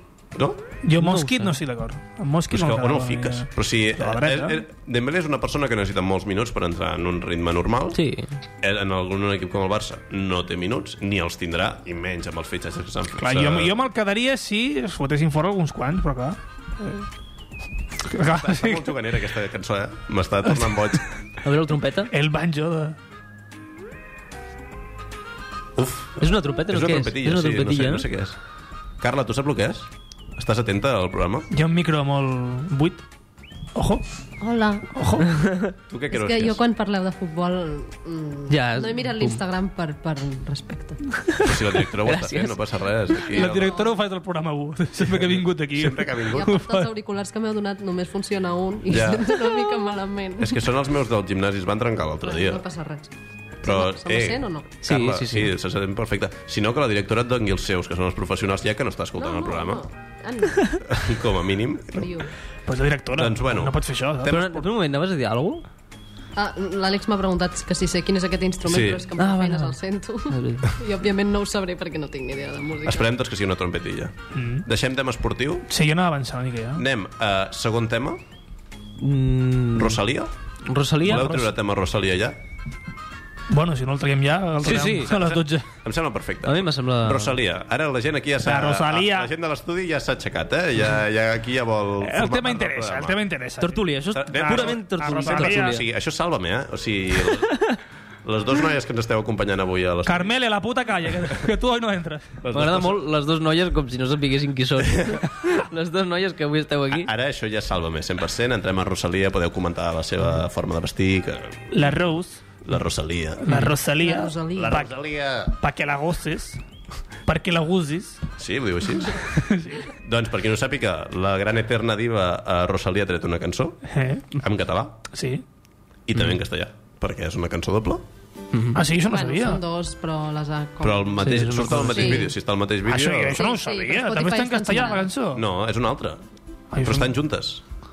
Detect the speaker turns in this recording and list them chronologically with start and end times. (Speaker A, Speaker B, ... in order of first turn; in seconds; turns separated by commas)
Speaker A: 0.3-0.6, Speaker B: 0.8-4.6, Speaker C: 1.0-1.6, Speaker A: 2.5-8.0, Speaker C: 7.9-8.3, Speaker A: 8.6-13.7, Speaker B: 13.2-17.0, Speaker B: 18.1-19.0, Speaker A: 18.2-21.0, Speaker C: 21.4-22.1, Speaker B: 22.1-22.9, Speaker A: 25.8-28.4, Speaker C: 26.2-28.1, Speaker A: 29.0-31.5, Speaker B: 31.5-33.0, Speaker B: 33.7-34.0, Speaker D: 34.4-34.9, Speaker B: 34.9-35.4, Speaker C: 35.4-35.7, Speaker A: 35.9-36.6, Speaker D: 36.1-41.0, Speaker C: 38.5-39.4, Speaker A: 41.4-43.7, Speaker C: 42.0-42.6, Speaker B: 43.3-46.9, Speaker D: 43.3-43.9, Speaker A: 45.0-46.5, Speaker D: 46.3-50.6, Speaker A: 48.9-49.5, Speaker A: 50.4-52.6, Speaker D: 52.2-53.1, Speaker D: 53.6-54.7, Speaker A: 53.6-59.8, Speaker C: 54.8-55.5, Speaker D: 59.2-60.8, Speaker A: 60.9-62.1, Speaker D: 61.9-62.3, Speaker B: 62.7-64.6, Speaker A: 63.1-63.8, Speaker C: 64.2-65.6, Speaker D: 66.3-73.1, Speaker A: 68.6-69.1, Speaker C: 69.2-69.8, Speaker C: 70.3-70.7, Speaker A: 72.8-75.7, Speaker B: 74.3-74.7, Speaker B: 75.7-76.8, Speaker A: 76.8-78.2, Speaker C: 79.0-80.0, Speaker A: 79.8-80.3, Speaker C: 80.7-81.3, Speaker A: 81.0-82.4, Speaker B: 81.1-81.4, Speaker B: 83.5-85.7, Speaker C: 84.6-85.1, Speaker A: 84.9-93.2, Speaker C: 86.4-87.3, Speaker B: 88.4-89.3, Speaker B: 92.0-95.8, Speaker C: 93.6-95.8, Speaker A: 94.1-97.6, Speaker A: 98.2-100.3, Speaker B: 100.0-102.3, Speaker A: 102.4-103.0, Speaker C: 102.5-107.1, Speaker A: 104.8-105.2, Speaker A: 106.9-111.7, Speaker B: 111.7-112.4, Speaker A: 112.6-113.5, Speaker B: 113.4-114.9, Speaker C: 113.5-113.7, Speaker D: 114.0-114.8, Speaker A: 114.5-115.5, Speaker B: 115.5-116.6, Speaker B: 117.2-118.2, Speaker A: 118.4-119.3, Speaker B: 119.3-119.9, Speaker A: 120.0-125.0, Speaker B: 123.9-124.3, Speaker B: 125.1-125.4, Speaker A: 126.1-128.0, Speaker C: 128.5-128.8, Speaker B: 128.7-129.6, Speaker D: 129.0-132.3, Speaker A: 130.8-133.4, Speaker C: 131.2-132.2, Speaker B: 132.8-135.4, Speaker D: 133.3-135.1, Speaker A: 135.3-136.2, Speaker B: 136.7-137.1, Speaker A: 136.8-137.6